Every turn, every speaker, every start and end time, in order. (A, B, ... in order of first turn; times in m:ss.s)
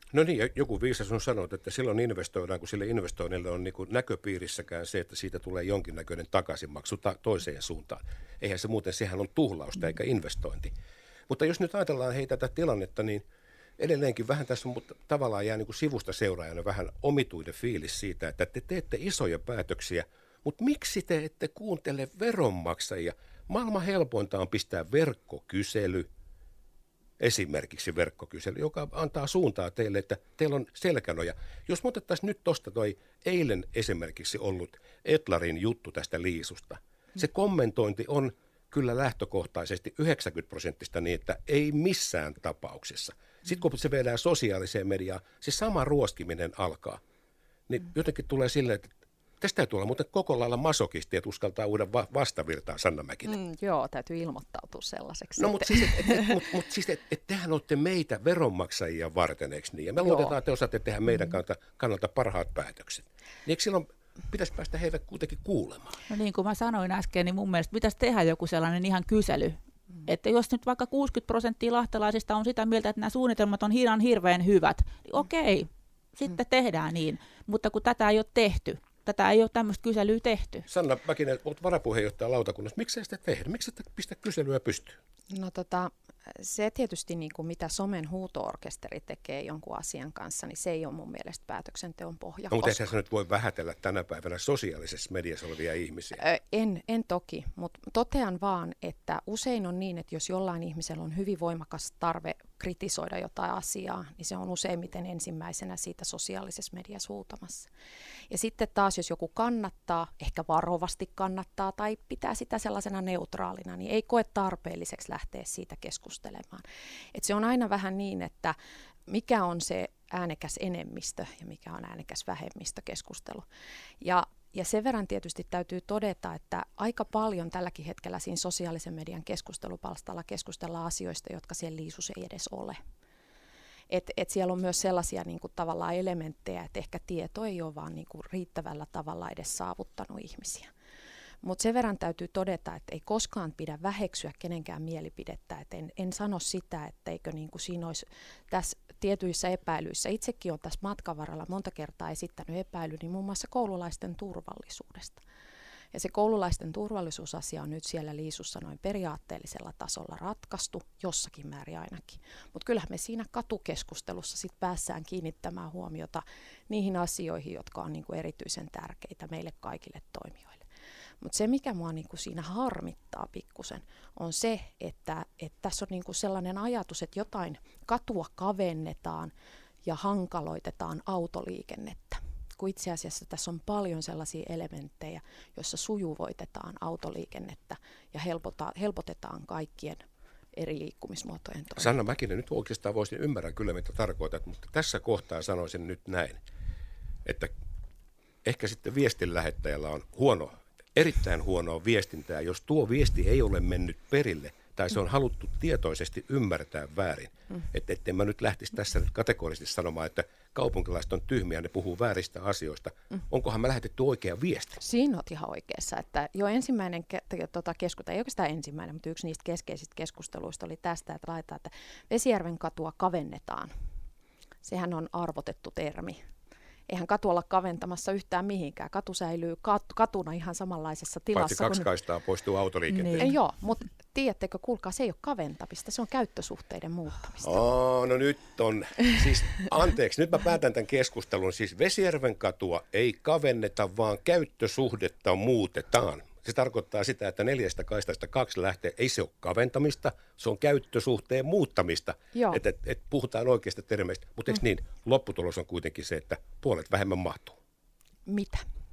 0:00.1-0:10.7 A
0:11.3-0:13.2 A
0:13.8-0:26.1 A
0:27.2-0:47.0 A
0:47.7-0:53.4 A
0:53.2-0:56.4 B
0:55.4-1:06.0 A
1:00.0-1:00.3 B
1:06.1-1:20.6 C
1:20.7-1:25.0 A
1:25.3-1:32.9 B
1:32.5-1:36.2 A
1:36.2-1:47.7 B
1:48.3-1:58.5 B
1:59.1-2:03.4 B
2:04.0-2:12.8 B
2:13.9-2:20.7 B
2:21.4-2:35.2 B
2:35.9-2:50.6 B
2:51.2-2:59.3 B
2:59.8-3:11.9 B
3:11.8-3:16.4 A
3:17.2-3:17.5 A
3:18.4-3:34.8 A
3:34.8-3:43.7 B
3:44.6-3:46.2 B
3:46.9-3:51.9 B
3:51.3-3:53.3 A
3:52.9-3:53.3 C
3:53.2-3:57.6 B
3:57.4-4:17.6 A
4:12.3-4:12.6 B
4:18.2-4:18.6 B